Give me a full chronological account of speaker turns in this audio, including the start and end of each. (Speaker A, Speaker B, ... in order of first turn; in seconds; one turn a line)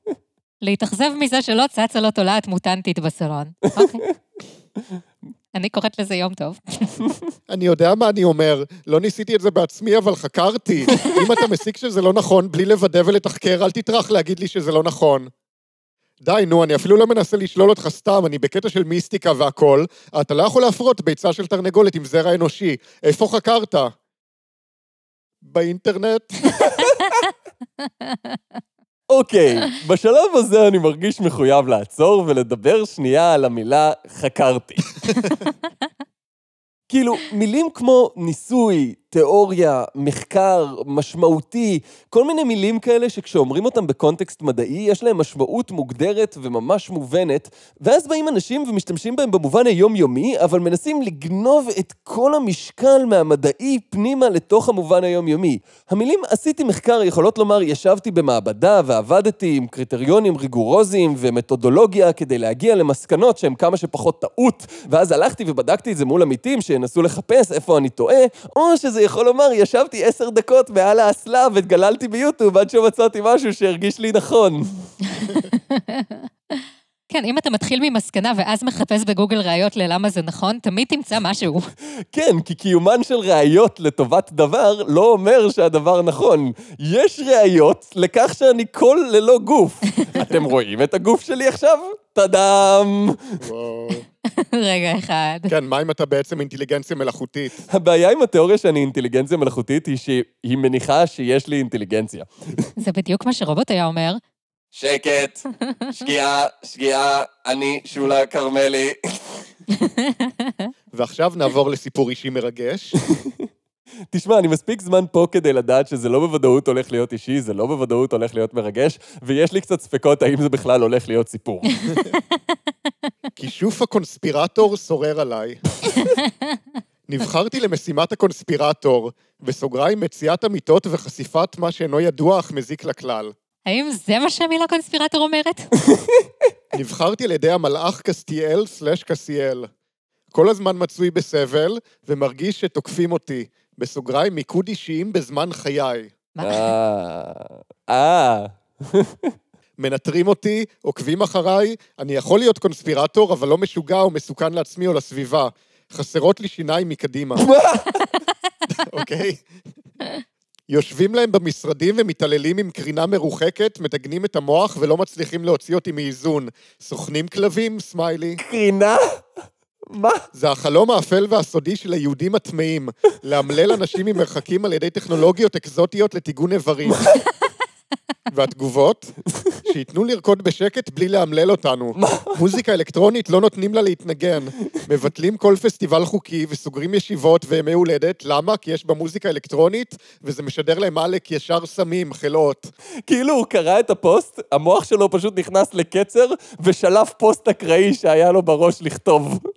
Speaker A: 0.6-4.0
Speaker A: 5.5-6.9
Speaker B: 7.5-15.3
Speaker B: 16.2-23.9
Speaker B: 25.4-26.5
Speaker C: 26.6-27.1
Speaker A: 27.9-28.4
Speaker C: 29.1-34.9
Speaker C: 36.9-74.9
Speaker A: 75.1-81.7
Speaker C: 82.1-93.4
Speaker B: 93.4-94.0
Speaker A: 94.3-95.5
Speaker B: 95.5-97.6
Speaker C: 97.7-102.7
Speaker A: 102.8-104.2
Speaker C: 104.7-109.0
Speaker A: 109.7-110.7
Speaker B: 110.9-112.9
Speaker C: 113.1-113.4
Speaker C: 114.1-121.7
Speaker B: 123.3-125.6
Speaker A: 126.2-126.5
Speaker B: 127.1-133.3
Speaker A: 133.7-135.7
Speaker C: 135.9-136.3
Speaker B: 136.7-139.7
Speaker B: 140.3-146.1
Speaker A: 146.3-146.7
Speaker C: 146.4-149.3
Speaker B: 149.8-157.4
Speaker C: 157.4-158.1
Speaker B: 158.7-159.4
Speaker B: 160.7-168.4
Speaker C: 168.4-169.2
Speaker C: 169.9-170.2
Speaker B: 170.3-177.1
Speaker B: 178.3-192.7
Speaker C: 182.0-182.4
Speaker C: 193.1-199.4